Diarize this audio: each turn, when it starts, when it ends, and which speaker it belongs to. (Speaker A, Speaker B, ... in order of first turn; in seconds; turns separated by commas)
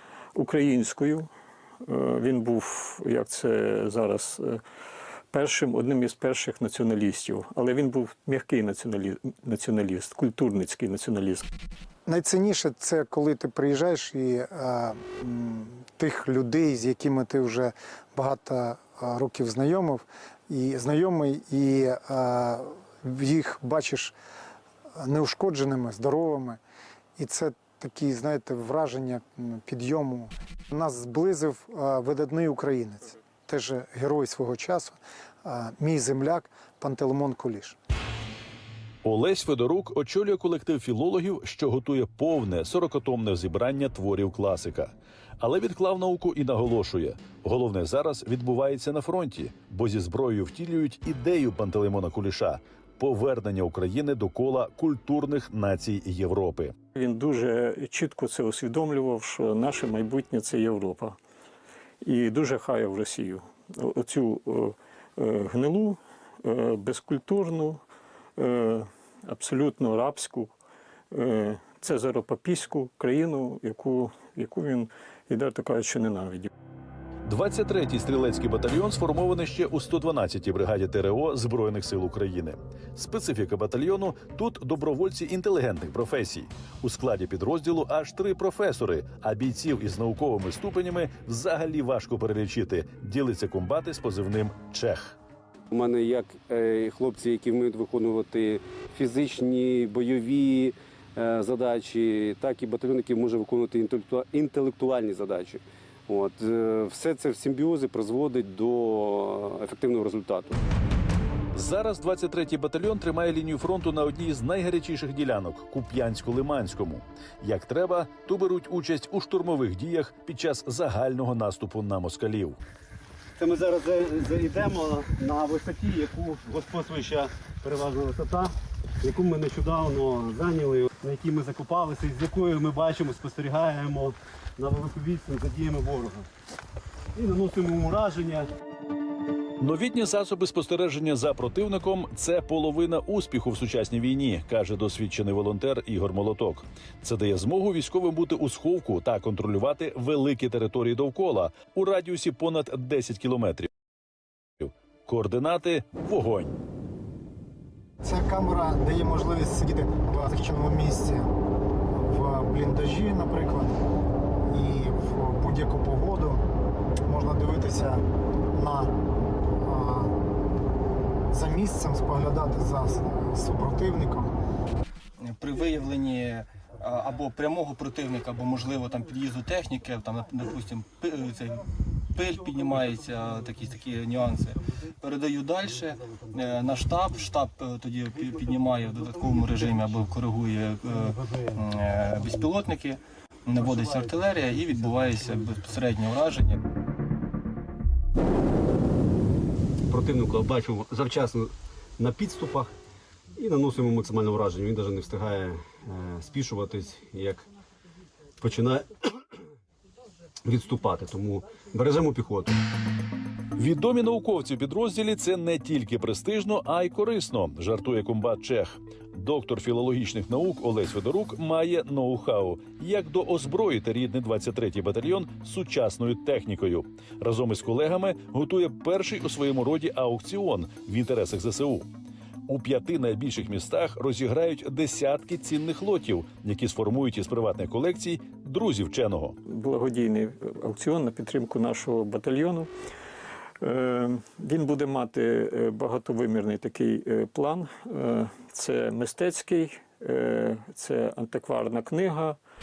Speaker A: 0.3-1.3, Speaker A: 1.9-4.6, Speaker A: 5.3-11.4, Speaker B: 12.1-24.1, Speaker B: 25.0-26.6, Speaker B: 27.2-37.8, Speaker C: 39.0-56.7, Speaker A: 57.0-61.1, Speaker A: 62.0-67.8, Speaker A: 68.4-70.5, Speaker A: 71.1-76.5, Speaker C: 77.2-95.2, Speaker D: 95.7-110.6, Speaker C: 111.5-122.6, Speaker D: 123.4-136.3, Speaker D: 137.2-138.5, Speaker C: 139.6-153.7, Speaker C: 154.6-156.6, Speaker B: 158.0-161.3, Speaker B: 161.9-163.8, Speaker B: 164.5-166.4, Speaker B: 167.1-168.9, Speaker B: 169.6-170.1, Speaker B: 171.3-174.3, Speaker E: 175.2-196.6, Speaker D: 199.9-202.7, Speaker D: 203.3-207.4, Speaker D: 208.4-209.1, Speaker D: 210.4-212.6, Speaker C: 213.6-231.9, Speaker C: 232.5-239.4, Speaker A: 239.5-242.7, Speaker A: 243.6-252.3